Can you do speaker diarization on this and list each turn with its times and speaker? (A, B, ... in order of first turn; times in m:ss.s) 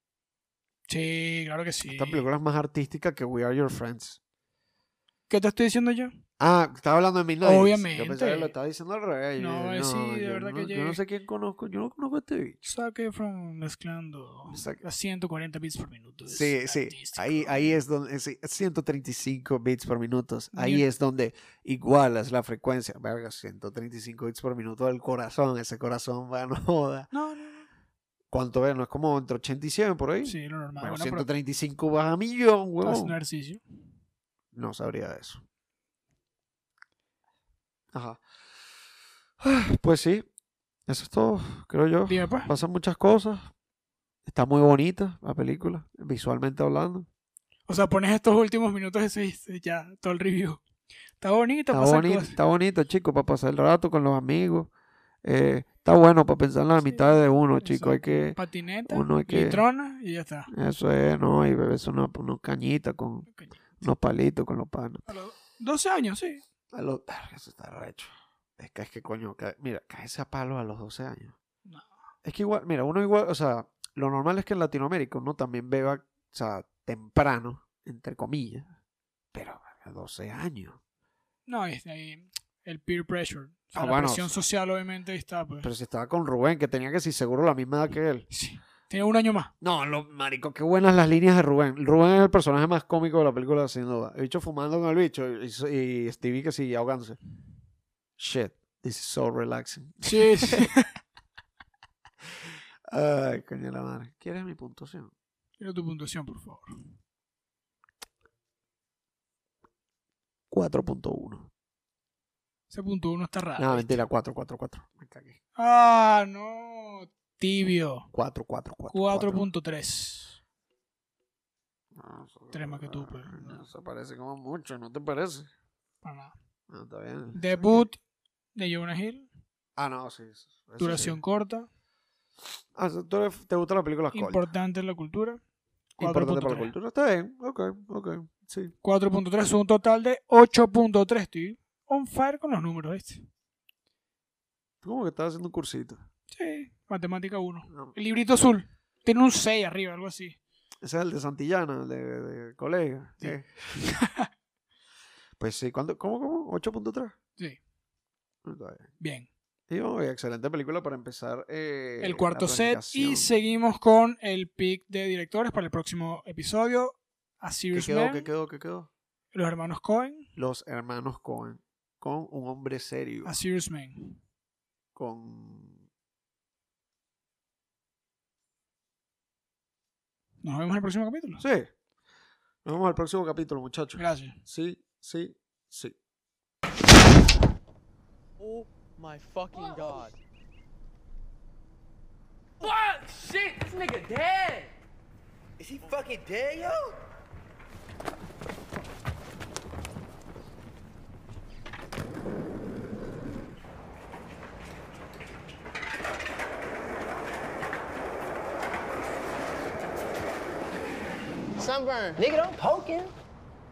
0:00.9-0:02.2 A
0:01.8-0:04.2 B
0:05.3-0:06.1 A
0:06.4-0:12.7 B
0:07.4-0:08.5 A
0:09.4-0:11.0 A
0:12.6-0:17.6 A
0:14.5-0:14.8 B
0:16.3-0:27.1 B
0:20.5-0:20.8 A
0:27.1-0:27.7 A
0:28.3-0:33.1 B
0:30.2-0:31.3 A
0:32.8-0:33.6 A
0:34.5-0:35.4 B
0:37.9-0:38.2 B
0:39.4-0:40.3 B
0:40.9-0:43.5 B
0:42.1-0:42.5 A
0:44.2-0:47.1 B
0:47.7-0:50.6 A
0:51.2-0:52.4 A
0:51.7-0:54.7 B
0:55.2-0:58.4 B
0:56.8-1:00.5 A
0:58.9-0:59.6 B
1:00.5-1:05.0 B
1:03.3-1:03.6 A
1:05.1-1:06.4 A
1:06.7-1:11.3 B
1:12.2-1:18.7 B
1:19.3-1:20.8 B
1:21.4-1:25.7 A
1:23.8-1:24.3 B
1:25.6-1:28.2 B
1:28.3-1:29.5 A
1:29.6-1:37.2 B
1:38.2-1:40.7 B
1:40.0-1:40.9 A
1:42.9-1:45.1 B
1:45.6-1:46.8 A
1:50.5-1:51.5 B
1:52.7-1:54.0 A
1:53.6-1:55.4 B
1:55.6-1:58.1 A
1:58.1-1:59.4 B
1:58.9-2:00.4 A
2:01.9-2:05.5 B
2:02.5-2:03.6 A
2:06.0-2:06.3 A
2:06.7-2:07.9 B
2:07.3-2:08.0 A
2:08.5-2:09.3 A
2:09.8-2:11.2 B
2:10.8-2:11.7 A
2:12.7-2:14.5 B
2:14.1-2:15.4 A
2:16.0-2:16.7 A
2:16.0-2:18.7 B
2:18.8-2:23.2 A
2:24.8-2:26.0 B
2:26.3-2:30.4 A
2:27.7-2:27.9 B
2:30.8-2:33.8 B
2:33.2-2:34.3 A
2:35.4-2:37.1 B
2:38.4-2:38.9 B
2:39.0-2:39.3 A
2:39.7-2:43.3 B
2:42.0-2:48.3 A
2:47.7-2:48.9 B
2:49.3-2:50.3 A
2:50.4-2:53.3 B
2:53.2-2:54.2 A
2:54.9-2:55.8 B
3:00.4-3:01.4 A
3:01.4-3:01.7 B
3:02.6-3:05.9 B
3:04.0-3:04.4 A
3:08.4-3:10.2 C
3:09.5-3:10.0 D
3:12.6-3:14.7 D
3:15.6-3:17.0 C
3:31.6-3:33.1 D